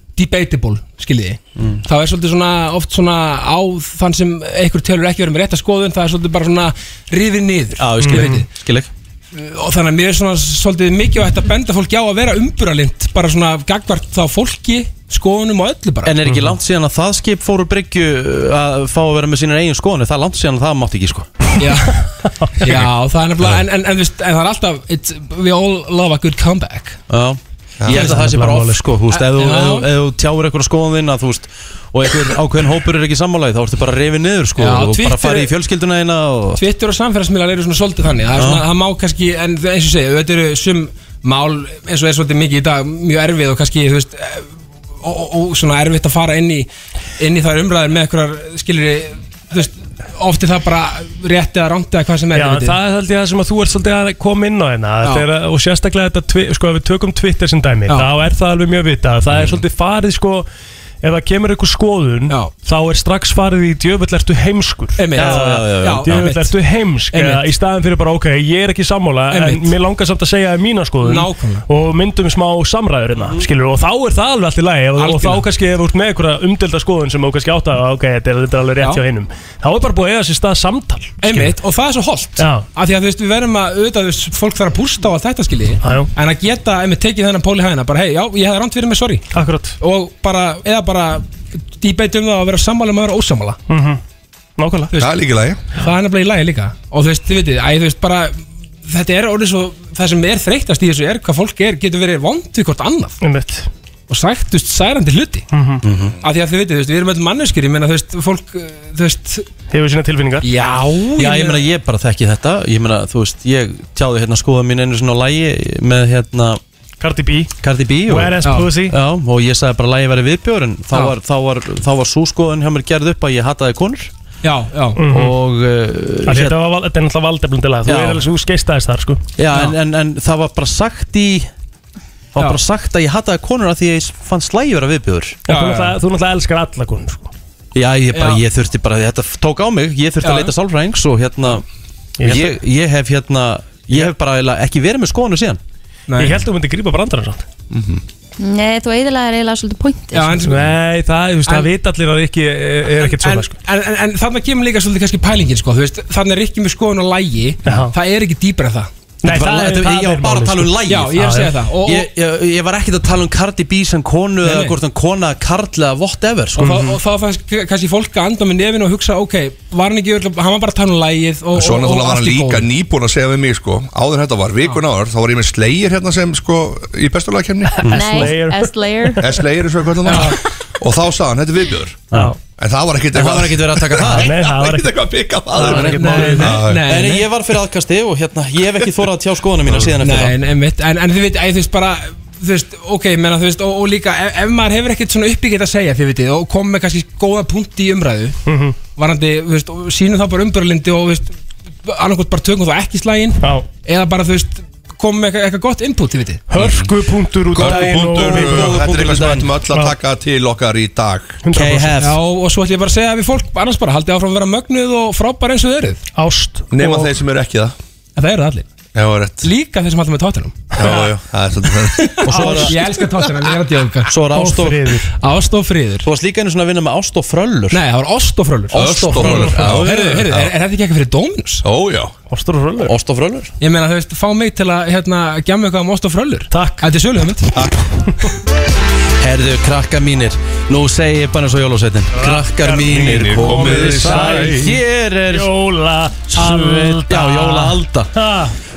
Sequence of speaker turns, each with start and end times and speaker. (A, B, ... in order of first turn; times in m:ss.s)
0:00.2-0:08.5 A
0:07.8-0:08.9 B
0:08.0-0:08.4 C
0:09.3-0:16.2 A
0:16.0-0:21.3 B
0:16.2-0:16.6 C
0:21.6-0:22.0 A
0:22.6-0:27.0 A
0:22.6-0:23.6 D
0:27.1-0:36.6 B
0:27.8-0:28.1 D
0:27.9-0:28.8 C
0:29.1-0:29.9 A
0:34.6-0:35.5 A
0:36.5-0:44.5 A
0:38.3-0:38.7 B
0:45.0-0:46.7 A
0:47.2-0:52.8 A
0:52.3-1:00.5 C
1:01.0-1:21.5 C
1:05.0-1:06.5 A
1:05.1-1:06.3 B
1:07.1-1:07.5 A
1:09.3-1:09.7 A
1:11.0-1:11.6 A
1:13.2-1:13.4 B
1:15.0-1:15.4 A
1:21.2-1:29.2 A
1:22.4-1:22.6 C
1:25.8-1:26.1 C
1:29.3-1:29.8 C
1:29.8-1:31.3 A
1:31.8-1:33.6 A
1:33.7-1:34.0 C
1:34.6-1:34.9 C
1:34.9-1:35.6 D
1:35.8-1:43.2 A
1:43.2-1:43.7 C
1:44.1-1:45.4 A
1:45.5-1:45.8 C
1:45.8-1:46.2 B
1:46.2-1:49.4 A
1:49.7-1:50.5 C
1:50.4-1:51.6 A
1:51.2-1:56.6 B
1:57.0-1:57.5 C
1:57.6-2:04.1 B
1:58.1-1:59.0 C
2:04.4-2:05.0 A
2:05.0-2:05.3 C
2:05.1-2:06.6 B
2:06.2-2:09.2 C
2:07.8-2:08.2 B
2:09.4-2:11.5 B
2:12.3-2:15.4 B
2:15.5-2:17.3 C
2:15.5-2:15.9 A
2:17.7-2:21.6 B
2:18.1-2:18.4 A
2:20.2-2:20.5 A
2:22.2-2:22.5 C
2:22.2-2:25.6 B
2:26.1-2:26.4 A
2:26.2-2:27.4 C
2:27.7-2:28.0 D
2:28.4-2:30.4 E
2:30.1-2:30.6 A
2:30.4-2:33.5 C
2:33.0-2:38.9 A
2:37.6-2:37.9 C
2:39.2-2:41.5 C
2:39.2-2:41.2 B
2:40.9-2:42.1 A
2:41.8-2:46.9 B
2:44.4-2:44.8 A
2:46.6-2:52.6 A
2:51.5-2:57.8 D
2:57.8-2:58.2 B
2:57.8-2:59.4 C
2:57.9-2:59.2 E
2:59.2-3:07.0 D
3:00.0-3:00.4 A
3:03.1-3:04.3 B
3:04.0-3:06.6 C
3:05.6-3:10.4 B
3:05.9-3:07.2 A
3:10.0-3:18.4 A
3:18.4-3:18.8 C
3:19.0-3:21.3 A
3:21.8-3:26.4 A
3:26.5-3:28.9 C
3:26.5-3:26.9 D
3:27.5-3:31.4 D
3:27.6-3:29.5 B
3:29.7-3:30.0 C
3:31.4-3:32.0 C
3:31.5-3:32.2 B
3:32.0-3:36.0 A
3:36.1-3:37.2 C
3:36.7-3:37.7 D
3:38.2-3:38.6 A
3:38.9-3:39.5 D
3:39.4-3:40.9 A
3:40.7-3:42.2 D
3:42.0-3:44.1 A
3:42.2-3:42.8 B
3:42.4-3:42.7 C
3:44.1-3:44.9 B
3:44.3-3:45.1 C
3:45.2-3:46.1 A
3:46.0-3:47.8 B
3:47.7-3:51.6 A
3:48.7-3:50.5 D
3:48.8-3:49.9 B
3:49.2-3:49.9 C
3:51.6-3:52.1 D
3:52.3-3:52.9 C
3:52.8-3:53.5 B
3:53.6-3:57.5 A
3:56.5-3:56.8 C
3:59.2-4:05.5 B
4:02.2-4:04.7 C
4:02.8-4:04.6 D
4:05.3-4:08.5 C
4:06.3-4:08.1 B